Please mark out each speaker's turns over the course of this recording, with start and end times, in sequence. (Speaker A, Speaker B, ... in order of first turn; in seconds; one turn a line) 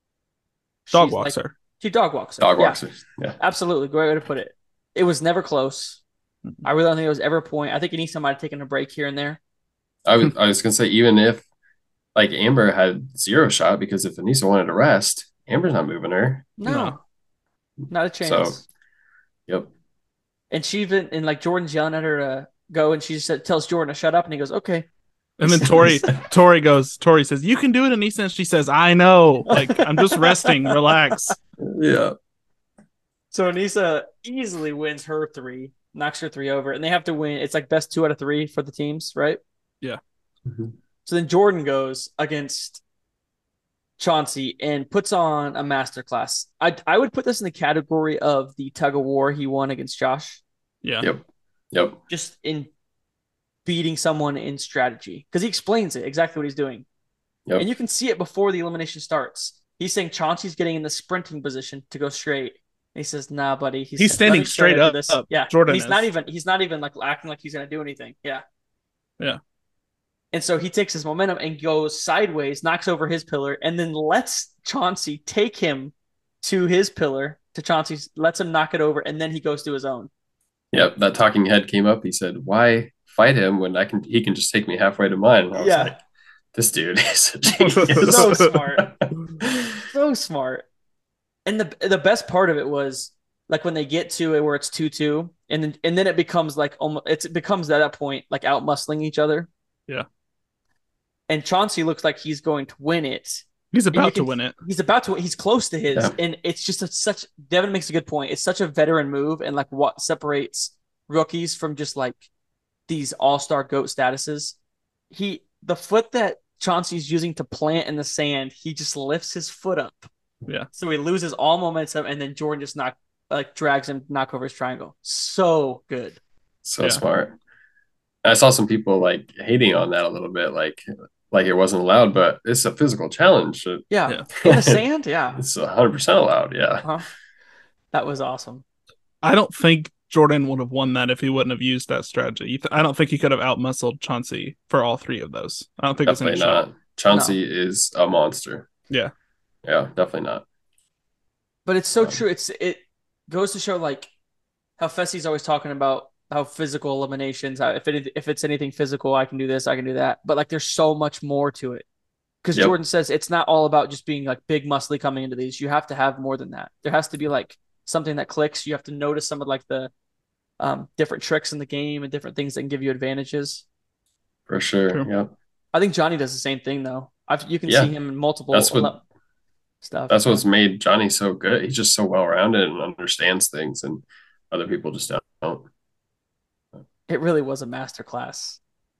Speaker A: 0.9-2.8
Speaker B: 0.9-1.5
Speaker C: 2.4-3.4
Speaker A: 3.4-6.0
Speaker A: 6.6-9.4
Speaker C: 10.1-11.4
Speaker C: 12.1-16.5
Speaker A: 16.6-17.0
Speaker B: 16.6-17.0
Speaker A: 17.9-18.6
Speaker C: 18.2-18.6
Speaker A: 20.5-24.9
Speaker B: 25.4-31.4
Speaker A: 25.5-26.1
Speaker C: 25.6-25.9
Speaker A: 29.5-31.3
Speaker C: 31.6-32.1
Speaker A: 33.3-39.4
Speaker C: 40.5-40.7
Speaker A: 41.0-42.8
Speaker A: 44.0-50.4
Speaker C: 51.0-52.0
Speaker A: 52.1-52.7
Speaker A: 53.6-56.8
Speaker A: 57.5-68.4
Speaker B: 64.0-66.1
Speaker A: 70.3-80.1
Speaker C: 80.7-86.0
Speaker A: 85.5-85.9
Speaker C: 86.5-89.7
Speaker B: 87.6-88.5
Speaker A: 88.0-88.9
Speaker A: 89.9-90.6
Speaker A: 91.5-99.5
Speaker A: 101.3-112.2
Speaker B: 103.7-104.5
Speaker C: 105.9-106.2
Speaker A: 112.9-114.5
Speaker A: 115.1-120.1
Speaker A: 120.7-126.2
Speaker C: 126.6-127.3
Speaker C: 128.2-136.9
Speaker A: 133.9-135.4
Speaker A: 137.9-138.6
Speaker B: 139.2-146.6
Speaker C: 146.0-148.7
Speaker A: 147.1-147.3
Speaker C: 149.6-150.4
Speaker A: 151.7-154.1
Speaker A: 154.8-161.8
Speaker A: 162.4-169.9
Speaker A: 170.6-173.6
Speaker C: 174.5-175.3
Speaker A: 175.7-179.0
Speaker C: 177.7-177.9
Speaker C: 178.5-178.9
Speaker A: 179.8-180.4
Speaker C: 180.1-185.7
Speaker A: 187.1-188.6